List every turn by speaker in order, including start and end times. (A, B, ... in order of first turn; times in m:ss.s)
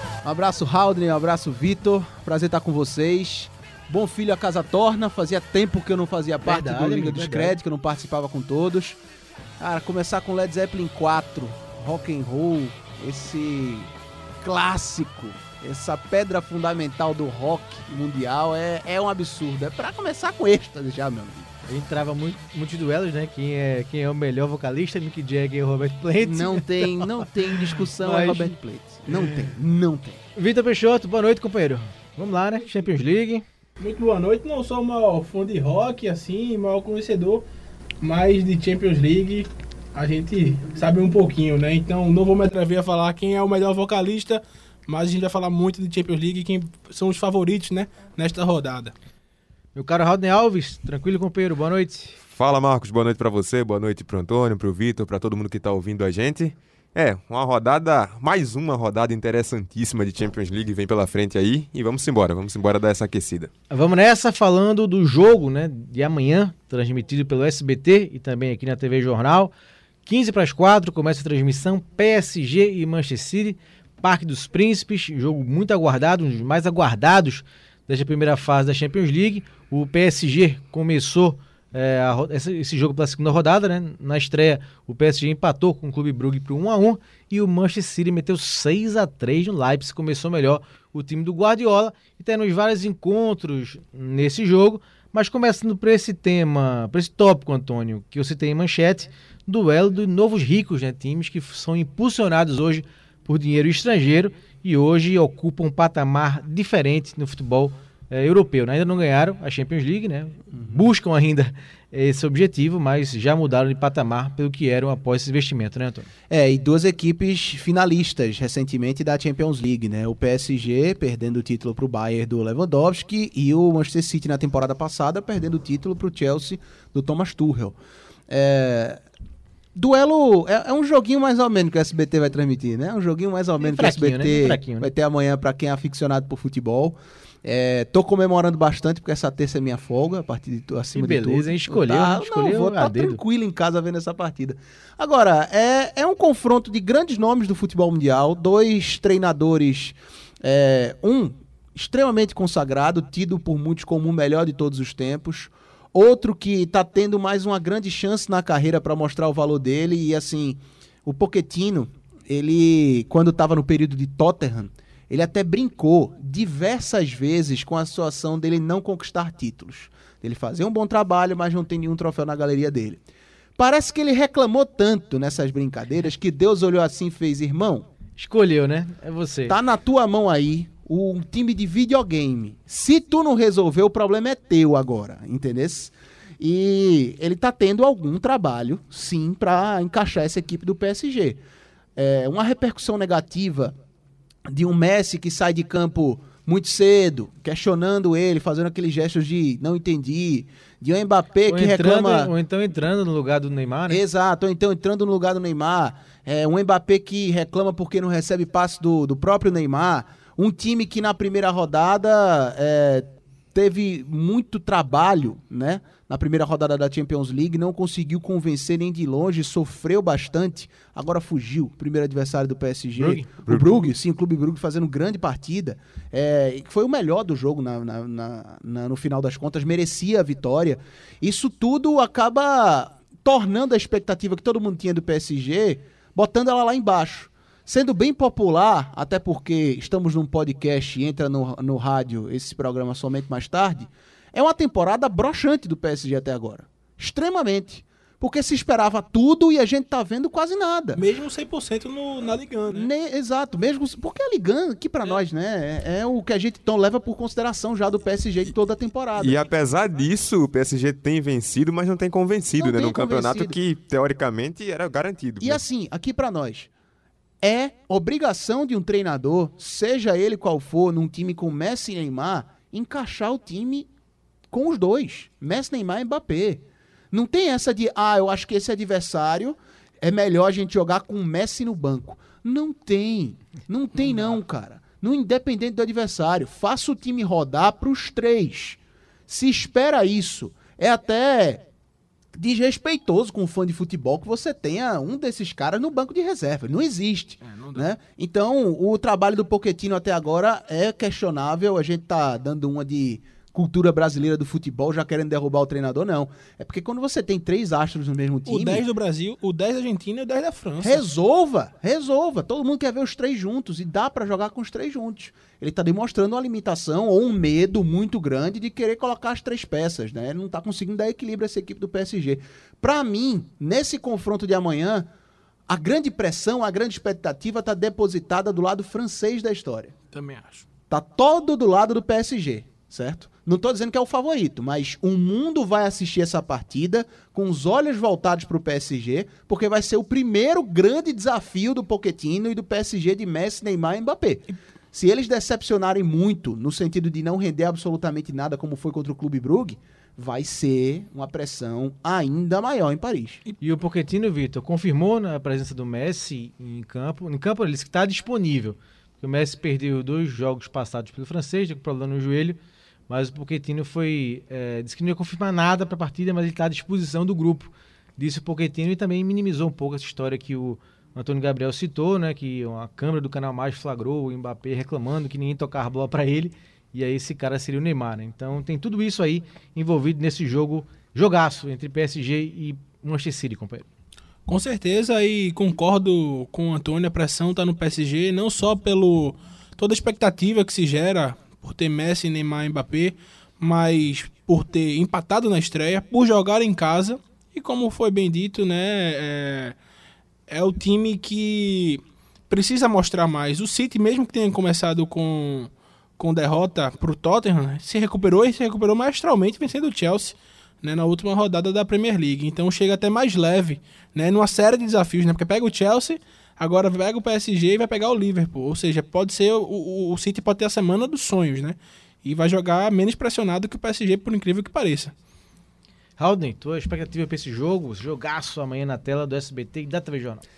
0:00.2-0:09.0 A
0:06.4-0:07.6 B
0:09.6-0:21.5 A
0:21.7-0:28.6 B
0:26.2-0:30.2 A
0:29.1-0:29.5 C
0:30.4-0:33.4 B
0:33.8-0:37.4 C
0:38.0-0:48.9 C
0:49.8-0:52.2 B
0:52.2-1:03.5 D
1:03.7-1:09.5 B
1:10.1-1:56.1 B
1:50.6-1:50.8 A
1:56.3-2:07.8 A
2:08.3-2:09.0 A
2:09.8-2:53.0 A
2:13.6-2:14.9 B
2:20.9-2:23.2 B
2:53.6-2:57.9 A
2:58.2-2:59.6 B
2:59.5-3:11.4 A
3:12.0-3:13.8 A
3:14.5-3:22.3 A
3:21.5-3:24.0 B
3:23.9-4:11.0 A
3:43.0-3:43.9 B
4:11.0-4:12.9 C
4:12.7-4:19.4 A
4:19.2-4:25.6 D
4:22.6-4:23.6 A
4:25.4-4:26.7 A
4:27.4-4:33.9 A
4:34.5-4:51.6 A
4:52.4-5:08.8 A
4:57.4-4:57.9 C
5:08.5-5:11.1 C
5:10.8-5:25.1 A
5:25.7-5:29.9 A
5:30.1-5:30.6 C
5:30.9-5:53.4 A
5:53.6-6:02.6 B
6:03.1-6:23.9 B
6:24.5-6:39.8 C
6:40.5-7:05.1 C
7:06.2-7:10.4 B